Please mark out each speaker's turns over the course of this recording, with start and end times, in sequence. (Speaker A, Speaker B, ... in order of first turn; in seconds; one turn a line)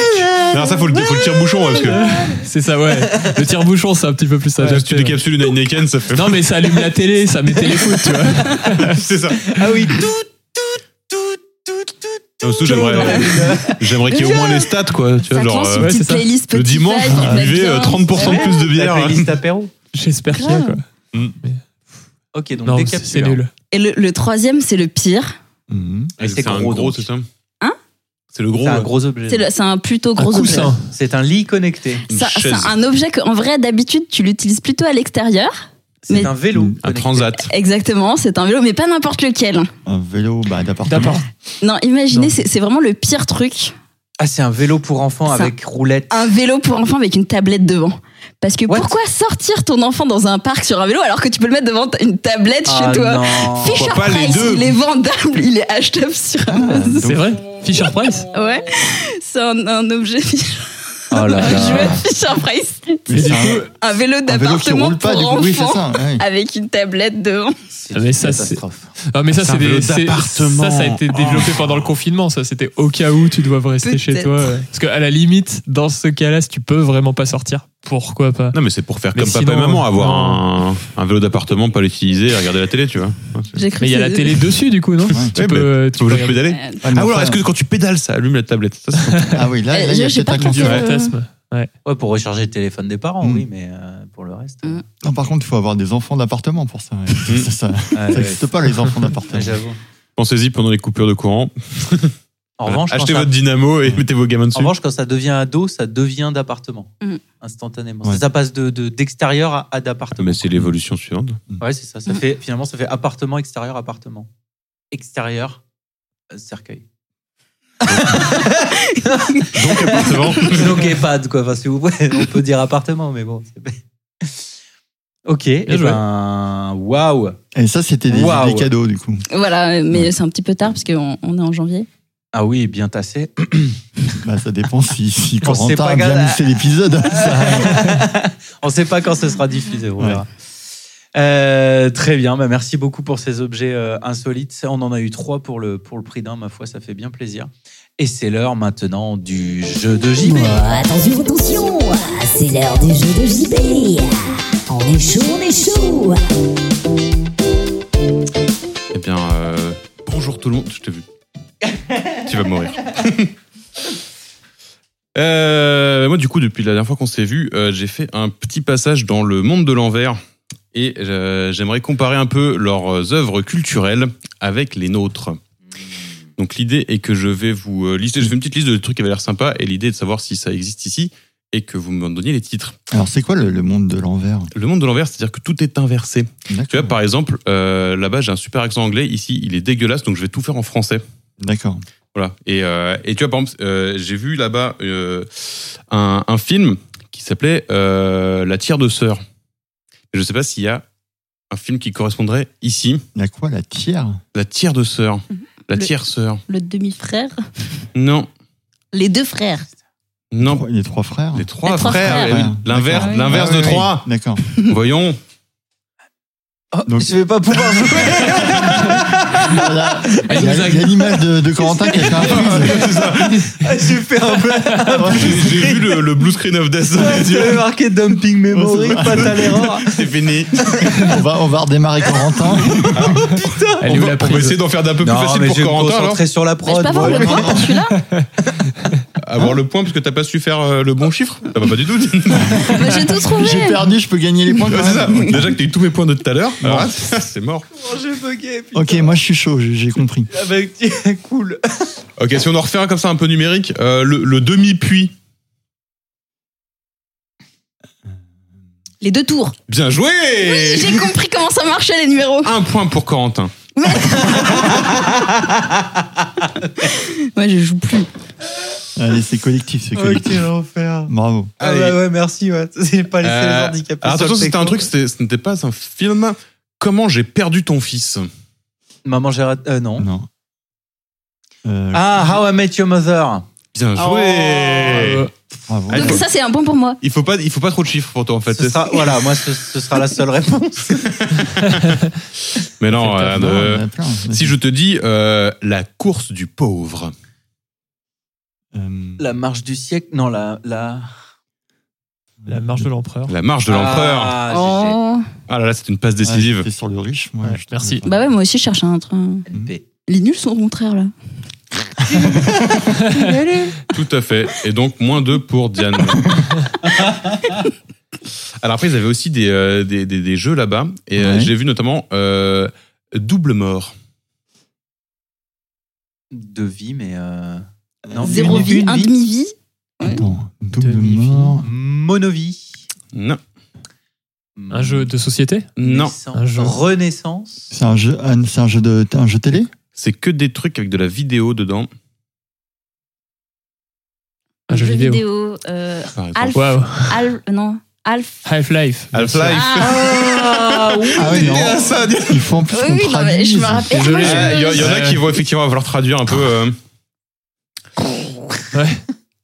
Speaker A: 0.4-2.1
Speaker B: 1.7-5.2
Speaker A: 4.6-6.4
Speaker B: 6.1-9.0
Speaker A: 8.8-9.5
Speaker C: 9.5-13.8
Speaker A: 12.4-15.9
Speaker D: 12.8-14.7
Speaker D: 15.2-18.6
Speaker B: 15.8-16.3
Speaker A: 16.5-19.3
Speaker E: 17.2-17.6
Speaker C: 18.2-19.7
Speaker B: 19.9-20.9
Speaker D: 20.3-20.8
Speaker C: 22.3-23.4
Speaker B: 22.6-23.5
Speaker D: 23.7-25.4
Speaker E: 25.7-26.1
Speaker C: 26.2-27.1
Speaker A: 26.2-27.3
Speaker A: 28.3-28.9
Speaker C: 28.6-29.5
Speaker D: 29.3-30.7
Speaker B: 30.2-30.9
Speaker C: 30.9-32.0
Speaker D: 32.1-36.3
Speaker A: 32.1-32.8
Speaker C: 36.1-37.3
Speaker A: 36.8-37.5
Speaker D: 37.5-39.7
Speaker E: 39.9-41.2
Speaker B: 40.9-41.3
Speaker D: 41.6-43.7
Speaker C: 44.2-46.2
Speaker D: 45.3-45.5
Speaker D: 46.1-57.0
Speaker C: 48.7-48.9
Speaker C: 52.7-53.9
Speaker A: 53.6-54.8
Speaker E: 56.5-57.3
Speaker B: 57.0-58.3
Speaker D: 58.3-67.6
Speaker C: 61.1-62.0
Speaker B: 61.4-61.9
Speaker E: 63.1-63.7
Speaker B: 63.1-63.7
Speaker E: 64.3-66.2
Speaker C: 67.7-68.9
Speaker B: 67.9-78.6
Speaker A: 69.3-71.6
Speaker D: 73.8-74.5
Speaker A: 78.5-83.6
Speaker B: 79.1-80.5
Speaker D: 83.5-84.5
Speaker B: 83.8-86.4
Speaker A: 85.3-89.4
Speaker D: 86.5-86.8
Speaker E: 86.8-87.4
Speaker B: 89.1-89.4
Speaker E: 89.3-90.8
Speaker D: 89.7-91.1
Speaker B: 90.4-91.7
Speaker A: 90.6-90.9
Speaker C: 91.8-94.8
Speaker E: 93.2-93.5
Speaker E: 95.0-99.6
Speaker C: 97.9-98.5
Speaker C: 99.3-99.8
Speaker A: 100.2-102.1
Speaker C: 102.6-103.3
Speaker A: 102.7-104.7
Speaker C: 104.5-110.5
Speaker A: 110.2-111.4
Speaker C: 111.6-114.3
Speaker C: 114.9-115.6
Speaker C: 116.3-116.8
Speaker A: 117.8-118.2
Speaker C: 117.9-124.4
Speaker A: 119.5-120.8
Speaker C: 125.3-127.4
Speaker B: 125.7-126.0
Speaker E: 127.5-129.2
Speaker C: 128.1-128.7
Speaker D: 129.3-131.9
Speaker C: 132.3-133.8
Speaker E: 134.2-137.9
Speaker C: 135.4-136.5
Speaker C: 137.1-140.3
Speaker E: 140.0-140.2
Speaker C: 141.2-150.6
Speaker F: 150.2-156.2
Speaker A: 158.9-161.0
Speaker A: 162.2-163.3
Speaker A: 165.2-170.2
Speaker A: 170.7-175.4
Speaker A: 176.4-182.8
Speaker E: 182.9-184.5
Speaker A: 184.5-191.0
Speaker E: 186.5-187.0
Speaker E: 191.4-191.8
Speaker A: 192.1-199.2
Speaker A: 200.1-200.8
Speaker A: 201.5-203.0
Speaker E: 203.2-204.2
Speaker A: 204.3-206.4
Speaker D: 205.3-205.9
Speaker D: 206.5-207.4
Speaker A: 207.9-208.3
Speaker D: 208.9-209.7
Speaker A: 210.3-210.6
Speaker E: 210.4-214.4
Speaker A: 211.3-214.1
Speaker D: 211.6-212.4
Speaker D: 213.0-213.5
Speaker A: 214.6-215.2
Speaker C: 216.7-225.9
Speaker E: 216.9-217.1
Speaker A: 218.1-218.6
Speaker E: 219.4-222.9
Speaker B: 220.3-220.9
Speaker A: 222.2-223.5
Speaker B: 224.5-225.0
Speaker E: 224.9-225.4
Speaker A: 225.1-227.6
Speaker C: 227.0-230.1
Speaker E: 228.5-229.7
Speaker A: 229.8-230.8
Speaker C: 230.7-231.0
Speaker E: 230.9-233.2
Speaker C: 232.2-233.9
Speaker A: 232.9-233.2
Speaker B: 233.8-234.6
Speaker A: 233.8-236.2
Speaker C: 235.0-237.7
Speaker D: 236.7-238.0
Speaker E: 236.9-237.7
Speaker B: 238.0-238.3
Speaker A: 239.2-242.7
Speaker D: 242.6-243.9
Speaker E: 243.3-245.6
Speaker A: 244.7-247.7
Speaker E: 246.6-246.9
Speaker C: 247.7-249.2
Speaker E: 248.7-250.3
Speaker C: 250.3-251.9
Speaker A: 252.2-255.1
Speaker D: 259.0-259.6
Speaker A: 259.7-261.1
Speaker D: 260.4-262.5
Speaker A: 262.4-263.5
Speaker D: 263.8-264.9
Speaker C: 264.5-265.1
Speaker D: 266.8-268.1
Speaker E: 269.0-270.5
Speaker C: 269.9-274.9
Speaker E: 271.1-271.5
Speaker A: 271.6-272.0
Speaker A: 273.2-278.3
Speaker C: 279.1-280.1
Speaker E: 280.0-280.3
Speaker E: 281.6-282.3
Speaker C: 281.9-283.5
Speaker A: 283.7-285.3
Speaker D: 284.0-284.8
Speaker B: 284.9-285.3
Speaker E: 285.7-286.3
Speaker A: 285.9-286.2
Speaker D: 285.9-287.0
Speaker A: 287.0-289.0
Speaker C: 288.5-291.4
Speaker A: 291.2-291.8
Speaker A: 292.6-297.1
Speaker E: 293.1-294.6
Speaker E: 298.7-299.2
Speaker C: 299.2-301.1
Speaker E: 302.4-302.9
Speaker B: 302.5-303.4
Speaker A: 303.3-304.4
Speaker C: 303.7-305.0
Speaker D: 304.5-305.3
Speaker A: 305.5-306.7
Speaker E: 306.2-308.2
Speaker B: 307.4-308.0
Speaker D: 308.0-309.5
Speaker C: 309.5-309.8
Speaker D: 310.1-311.1
Speaker C: 312.1-313.7
Speaker B: 313.0-313.3
Speaker D: 313.1-313.6
Speaker A: 313.9-316.3
Speaker A: 318.6-323.9
Speaker E: 321.2-321.5
Speaker C: 326.3-329.1
Speaker E: 328.1-328.7
Speaker D: 328.2-330.2
Speaker E: 330.0-331.7
Speaker B: 330.8-331.6
Speaker C: 331.6-332.8
Speaker A: 333.1-333.4
Speaker C: 334.6-335.1
Speaker B: 334.7-335.7
Speaker A: 335.8-336.1
Speaker C: 335.8-337.6
Speaker B: 336.3-336.8
Speaker E: 337.7-339.7
Speaker A: 339.9-341.9
Speaker B: 344.7-345.2
Speaker D: 344.7-348.5
Speaker A: 346.2-346.6
Speaker B: 346.6-347.2
Speaker B: 348.4-349.6
Speaker A: 349.1-352.5
Speaker D: 349.5-351.3
Speaker C: 349.9-351.3
Speaker E: 351.1-354.2
Speaker D: 352.7-354.9
Speaker B: 353.9-355.2
Speaker A: 354.2-356.8
Speaker B: 358.7-359.0